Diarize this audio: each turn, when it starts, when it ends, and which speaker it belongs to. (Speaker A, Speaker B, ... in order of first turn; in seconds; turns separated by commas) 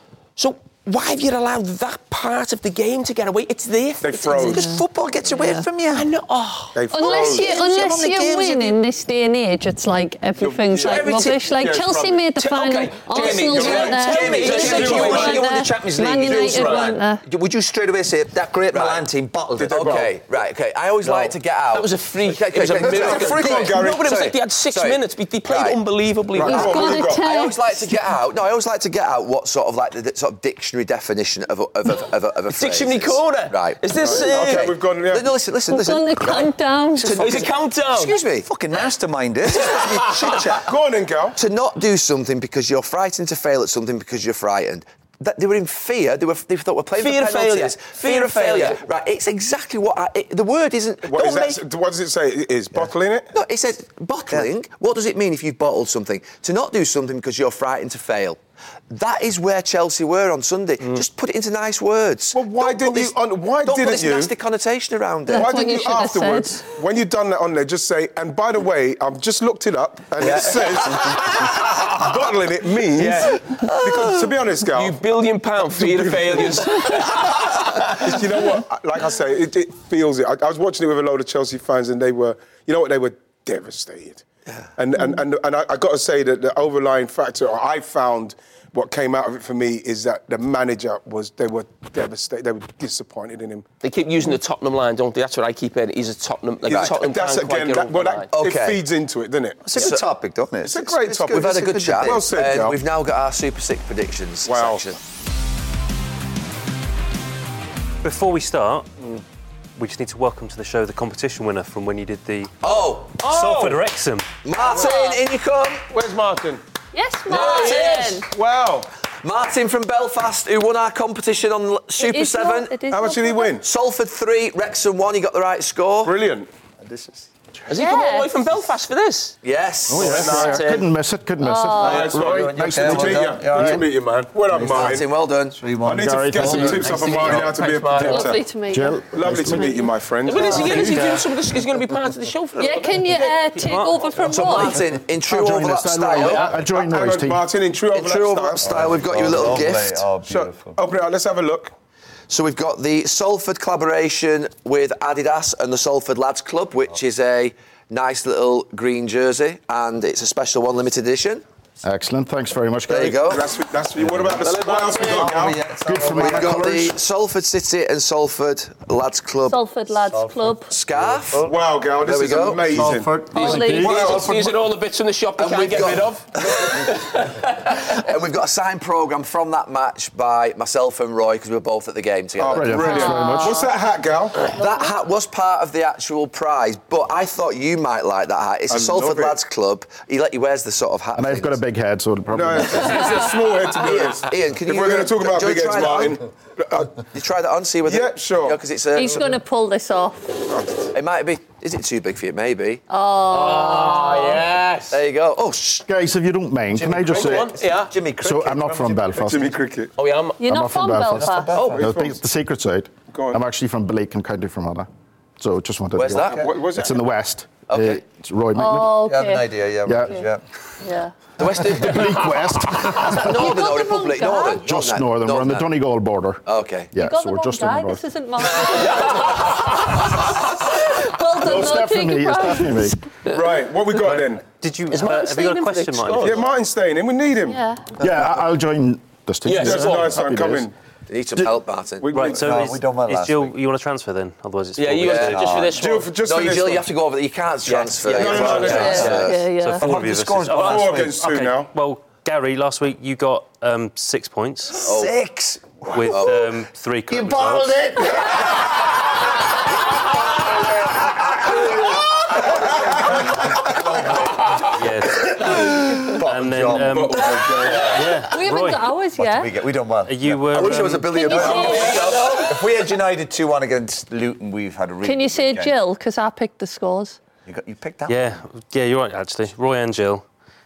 Speaker A: 0.4-4.6, Speaker B: 4.0-4.7, Speaker C: 4.3-6.1, Speaker D: 4.5-5.7, Speaker A: 5.9-6.8, Speaker B: 6.7-7.5, Speaker D: 6.9-17.2, Speaker C: 7.0-8.8, Speaker B: 10.4-12.2, Speaker E: 10.8-11.4, Speaker C: 12.4-20.1, Speaker A: 13.1-15.5, Speaker B: 13.2-15.4, Speaker E: 13.3-15.2, Speaker B: 16.3-16.9, Speaker E: 18.7-19.0, Speaker B: 19.6-20.1, Speaker E: 19.6-25.8, Speaker C: 21.0-21.3, Speaker A: 21.7-27.0, Speaker B: 22.7-24.1, Speaker B: 26.3-27.3, Speaker E: 26.4-38.4, Speaker D: 26.4-27.6, Speaker A: 32.5-34.7, Speaker B: 33.9-35.3, Speaker D: 35.7-37.3, Speaker A: 37.0-38.2, Speaker C: 38.4-40.7, Speaker A: 39.6-40.5, Speaker B: 40.6-41.4, Speaker E: 41.4-51.6, Speaker A: 47.0-48.8, Speaker B: 51.0-53.3, Speaker E: 53.3-58.4, Speaker E: 58.9-65.5, Speaker B: 62.3-64.3, Speaker D: 65.3-66.6, Speaker B: 65.3-75.0, Speaker E: 70.2-71.3, Speaker A: 73.0-73.4, Speaker E: 73.0-74.3, Speaker A: 74.7-78.1, Speaker B: 75.7-84.2, Speaker B: 84.8-93.7, Speaker A: 93.8-98.3, Speaker B: 96.6-99.9, Speaker E: 96.7-97.0, Speaker E: 98.3-98.8, Speaker C: 99.6-102.3, Speaker E: 99.8-100.0, Speaker B: 100.6-102.8, Speaker E: 101.3-105.0, Speaker B: 104.5-104.8, Speaker F: 108.0-108.9, Speaker F: 109.8-114.3, Speaker E: 112.6-113.2, Speaker B: 113.2-113.7, Speaker E: 114.4-115.9, Speaker D: 114.7-115.1, Speaker B: 115.9-116.6, Speaker D: 116.9-118.3, Speaker A: 117.3-118.2, Speaker E: 117.3-118.1, Speaker B: 117.3-118.9, Speaker E: 119.2-122.8, Speaker D: 122.0-123.6, Speaker B: 122.9-123.7, Speaker E: 123.6-126.1, Speaker B: 126.0-126.5, Speaker C: 126.8-127.3, Speaker A: 127.7-129.4, Speaker D: 127.7-128.3, Speaker E: 129.4-130.5, Speaker G: 129.9-133.8, Speaker B: 130.0-130.7, Speaker A: 130.0-130.9, Speaker D: 131.4-132.1, Speaker B: 131.8-135.1, Speaker C: 131.8-133.9, Speaker C: 134.5-137.5, Speaker E: 134.6-135.6, Speaker B: 135.8-138.4, Speaker G: 135.9-136.9, Speaker A: 136.5-138.3, Speaker D: 137.9-139.9, Speaker G: 138.7-139.8, Speaker B: 139.1-140.9, Speaker A: 140.2-143.3, Speaker D: 140.4-140.7, Speaker F: 140.7-141.3, Speaker D: 142.6-144.8, Speaker F: 143.5-144.7, Speaker E: 144.3-146.6, Speaker G: 145.2-147.5, Speaker A: 146.2-146.5, Speaker B: 146.2-149.0, Speaker E: 147.9-150.0, Speaker C: 148.6-150.8, Speaker B: 150.2-151.7, Speaker E: 152.3-161.4, Speaker G: 161.8-163.3, Speaker E: 162.9-163.5, Speaker B: 163.2-165.6, Speaker C: 164.0-166.8, Speaker E: 164.4-165.2, Speaker A: 164.6-165.0, Speaker G: 165.8-166.9, Speaker E: 166.1-169.6, Speaker D: 169.5-170.7, Speaker C: 170.1-171.5, Speaker E: 170.7-173.0, Speaker B: 171.4-174.5, Speaker C: 172.7-174.2, Speaker D: 173.3-174.0, Speaker G: 173.3-174.2, Speaker A: 173.3-177.9, Speaker E: 175.4-176.9, Speaker E: 177.7-182.8, Speaker B: 182.4-184.5, Speaker G: 182.5-183.6, Speaker D: 182.7-183.7, Speaker E: 184.4-191.6, Speaker D: 184.5-184.9, Speaker B: 188.7-189.4, Speaker G: 191.2-193.2, Speaker B: 192.3-197.1, Speaker E: 193.7-196.2, Speaker E: 197.1-199.3, Speaker B: 197.8-198.6, Speaker D: 198.9-200.4, Speaker B: 200.5-200.9, Speaker E: 200.9-202.8, Speaker D: 202.9-204.4, Speaker A: 203.3-205.0, Speaker E: 204.9-205.8, Speaker G: 205.8-207.5, Speaker C: 206.7-209.5, Speaker A: 207.1-207.9, Speaker G: 208.2-209.5, Speaker B: 209.2-209.9, Speaker A: 210.0-210.4, Speaker D: 210.4-211.5, Speaker G: 210.4-214.9, Speaker C: 211.1-211.9, Speaker E: 211.6-211.8, Speaker B: 211.6-212.2, Speaker B: 213.1-213.4, Speaker G: 215.4-219.0, Speaker E: 215.9-216.5, Speaker C: 216.1-216.5, Speaker B: 216.2-217.1, Speaker E: 217.7-218.0, Speaker D: 218.5-220.3, Speaker C: 218.8-220.4, Speaker G: 219.8-220.1, Speaker D: 220.8-221.1, Speaker E: 221.4-225.7, Speaker G: 221.7-223.3, Speaker D: 223.1-224.7, Speaker G: 224.6-226.4, Speaker E: 226.4-226.9, Speaker G: 226.9-228.0, Speaker D: 226.9-229.5, Speaker A: 229.1-229.6, Speaker D: 230.7-233.0, Speaker G: 231.3-233.0, Speaker B: 233.2-234.4, Speaker F: 234.0-236.5, Speaker A: 234.9-236.5, Speaker B: 236.2-237.6, Speaker D: 237.4-237.8, Speaker G: 238.0-240.7, Speaker A: 239.4-240.2, Speaker B: 239.5-240.7, Speaker E: 241.1-242.2, Speaker B: 242.0-242.6, Speaker F: 242.1-245.6, Speaker C: 242.3-243.6, Speaker A: 244.8-246.1, Speaker E: 245.0-245.4, Speaker C: 245.1-245.8, Speaker B: 245.7-246.9, Speaker E: 246.1-249.5, Speaker A: 247.7-249.3, Speaker B: 248.1-249.1, Speaker D: 248.7-249.8, Speaker C: 248.9-249.2, Speaker F: 249.0-254.8, Speaker C: 249.8-251.2, Speaker B: 250.5-251.7, Speaker C: 254.8-256.4, Speaker E: 254.8-255.1, Speaker F: 255.9-258.0, Speaker E: 256.1-256.5, Speaker C: 257.1-258.8, Speaker C: 261.4-261.7, Speaker C: 262.3-267.3, Speaker F: 264.7-268.9, Speaker B: 266.8-268.2, Speaker D: 268.3-269.5, Speaker C: 269.1-275.7, Speaker F: 270.0-271.7, Speaker E: 270.5-272.6, Speaker D: 271.0-272.1, Speaker A: 271.9-272.5, Speaker D: 275.0-277.2, Speaker C: 277.4-278.4, Speaker F: 278.1-280.2